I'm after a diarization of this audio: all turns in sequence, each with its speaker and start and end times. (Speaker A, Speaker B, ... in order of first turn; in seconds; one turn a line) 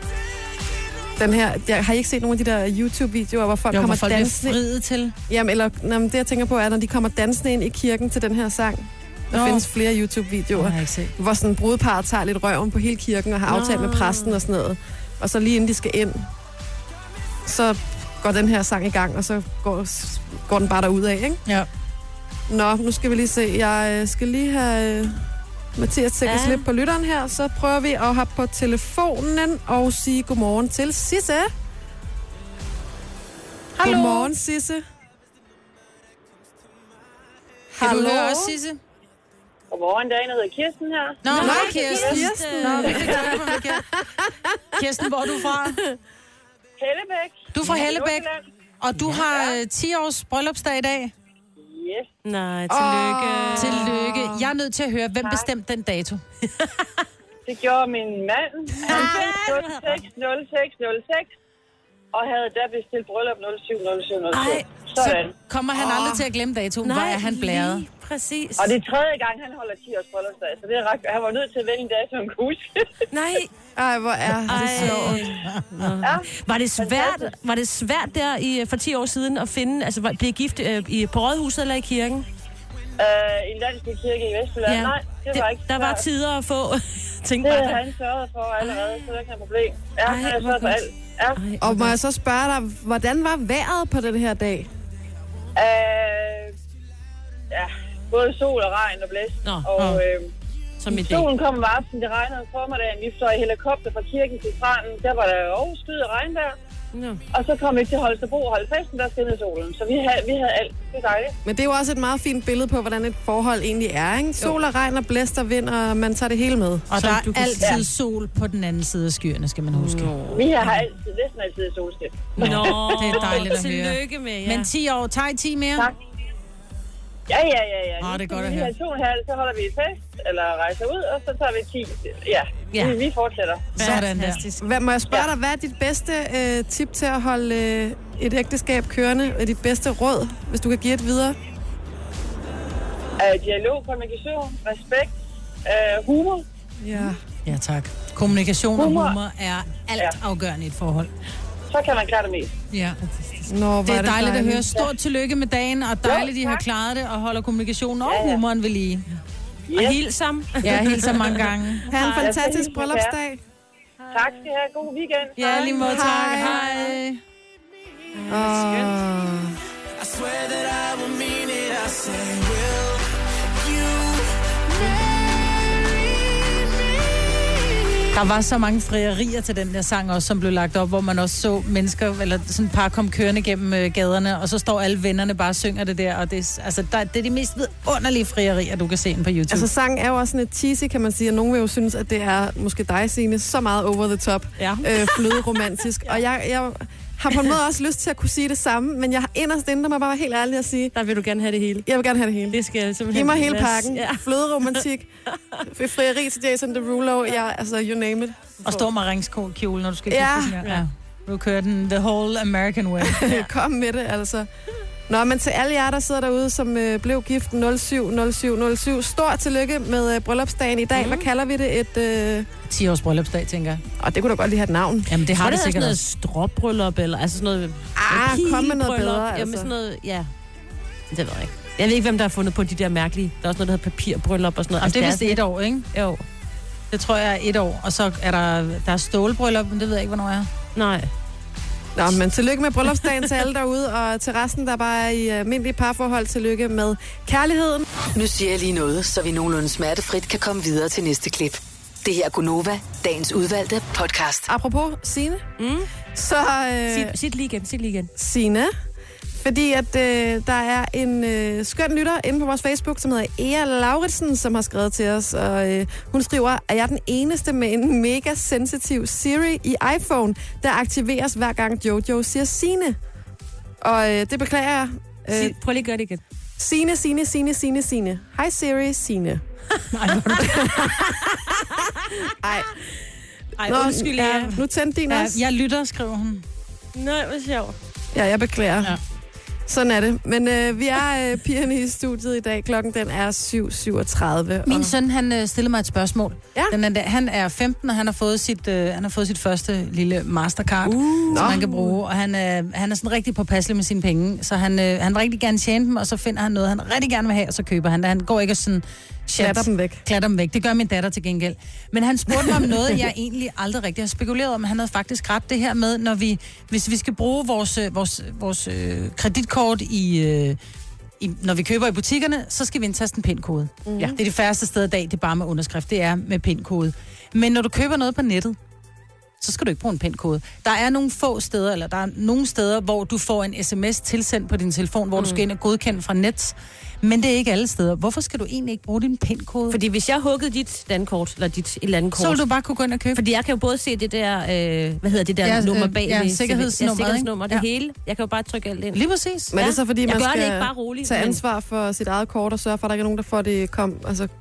Speaker A: 1.2-4.6
Speaker B: 3.7-5.1
Speaker A: 5.3-16.3
Speaker B: 9.3-9.7
Speaker B: 10.5-11.1
Speaker C: 13.5-14.4
Speaker A: 17.4-21.4
Speaker A: 22.5-25.2
Speaker A: 25.8-31.5
Speaker C: 26.3-26.6
Speaker B: 33.7-34.3
Speaker A: 33.8-34.8
Speaker B: 37.7-38.8
Speaker A: 37.8-38.5
Speaker D: 39.7-42.1
Speaker B: 41.2-43.9
Speaker C: 41.3-43.4
Speaker A: 41.4-44.3
Speaker B: 44.7-45.8
Speaker D: 46.8-48.4
Speaker B: 47.5-48.3
Speaker B: 48.8-51.1
Speaker C: 49.0-49.2
Speaker D: 51.6-52.1
Speaker C: 52.2-53.9
Speaker A: 52.7-54.5
Speaker B: 53.6-56.2
Speaker C: 56.6-56.9
Speaker D: 57.5-61.3
Speaker C: 58.8-60.0
Speaker B: 58.9-59.7
Speaker D: 62.1-65.3
Speaker C: 64.3-64.7
Speaker B: 65.5-67.9
Speaker A: 65.8-66.2
Speaker C: 66.8-68.8
Speaker D: 68.6-72.9
Speaker C: 73.1-73.5
Speaker A: 73.8-75.3
Speaker C: 74.5-82.3
Speaker B: 74.5-76.0
Speaker D: 76.0-77.3
Speaker D: 83.0-86.0
Speaker C: 84.7-87.8
Speaker D: 87.4-91.4
Speaker C: 88.6-88.9
Speaker C: 90.0-90.8
Speaker C: 91.4-92.0
Speaker A: 91.6-94.7
Speaker D: 95.6-96.5
Speaker D: 97.5-100.3
Speaker C: 99.4-100.0
Speaker C: 100.8-101.3
Speaker D: 100.9-106.5
Speaker C: 106.9-107.2
Speaker D: 107.3-111.3
Speaker A: 111.4-116.9
Speaker B: 116.9-120.7
Speaker C: 117.0-117.8
Speaker C: 119.7-120.5
Speaker D: 120.3-122.6
Speaker C: 122.4-124.7
Speaker B: 122.4-125.9
Speaker D: 127.3-133.8
Speaker B: 128.0-128.7
Speaker C: 132.7-133.0
Speaker B: 133.8-134.5
Speaker C: 133.8-134.5
Speaker A: 134.6-141.4
Speaker D: 143.2-145.1
Speaker D: 145.7-146.4
Speaker A: 146.8-147.2
Speaker B: 147.0-151.1
Speaker D: 148.8-149.1
Speaker D: 151.7-152.5
Speaker B: 152.7-153.0
Speaker A: 153.5-154.7
Speaker B: 153.8-159.1
Speaker D: 156.1-156.6
Speaker D: 158.1-158.4
Speaker D: 159.7-160.0
Speaker C: 159.7-162.3
Speaker B: 160.6-161.9
Speaker A: 161.9-163.4
Speaker D: 162.1-163.1
Speaker D: 164.1-165.9
Speaker B: 165.4-167.2
Speaker C: 165.4-165.9
Speaker A: 165.8-166.7
Speaker C: 166.4-166.9
Speaker C: 168.2-168.9
Speaker A: 168.3-169.6
Speaker E: 169.9-175.4
Speaker B: 178.1-189.7
Speaker A: 189.5-200.9
Speaker C: 194.6-195.4
Speaker C: 200.9-201.9
Speaker A: 201.9-205.1
Speaker C: 202.5-204.8
Speaker C: 205.3-205.6
Speaker A: 205.6-208.6
Speaker B: 208.6-213.2
Speaker A: 210.1-210.6
Speaker A: 213.0-214.5
Speaker A: 215.1-222.5
Speaker C: 220.9-221.3
Speaker B: 222.7-223.8
Speaker A: 224.0-225.1
Speaker B: 225.1-226.0
Speaker C: 225.4-230.3
Speaker A: 227.9-229.7
Speaker C: 231.1-236.2
Speaker B: 234.8-235.9
Speaker B: 236.9-240.5
Speaker C: 240.7-241.1
Speaker A: 241.9-247.9
Speaker F: 248.1-254.5
Speaker A: 254.5-255.4
Speaker C: 255.6-255.9
Speaker A: 256.1-257.1
Speaker C: 256.9-258.1
Speaker A: 258.2-258.7
Speaker A: 259.4-272.9
Speaker A: 273.8-275.6
Speaker C: 275.3-276.2
Speaker A: 276.6-279.4
Speaker B: 279.9-281.1
Speaker A: 280.4-281.1
Speaker A: 282.3-282.7
Speaker B: 283.6-286.4
Speaker A: 283.6-285.4
Speaker C: 286.9-287.8
Speaker A: 288.1-289.0
Speaker A: 289.7-294.9
Speaker B: 294.6-320.6
Speaker C: 300.9-301.6
Speaker A: 301.3-301.9
Speaker A: 309.4-310.0
Speaker B: 321.2-328.6
Speaker A: 323.9-324.1
Speaker B: 329.4-339.8
Speaker C: 335.1-335.4
Speaker C: 339.7-342.4
Speaker B: 342.1-343.2
Speaker C: 343.1-349.0
Speaker B: 345.4-347.6
Speaker B: 348.9-349.6
Speaker A: 349.5-354.3
Speaker C: 349.5-351.4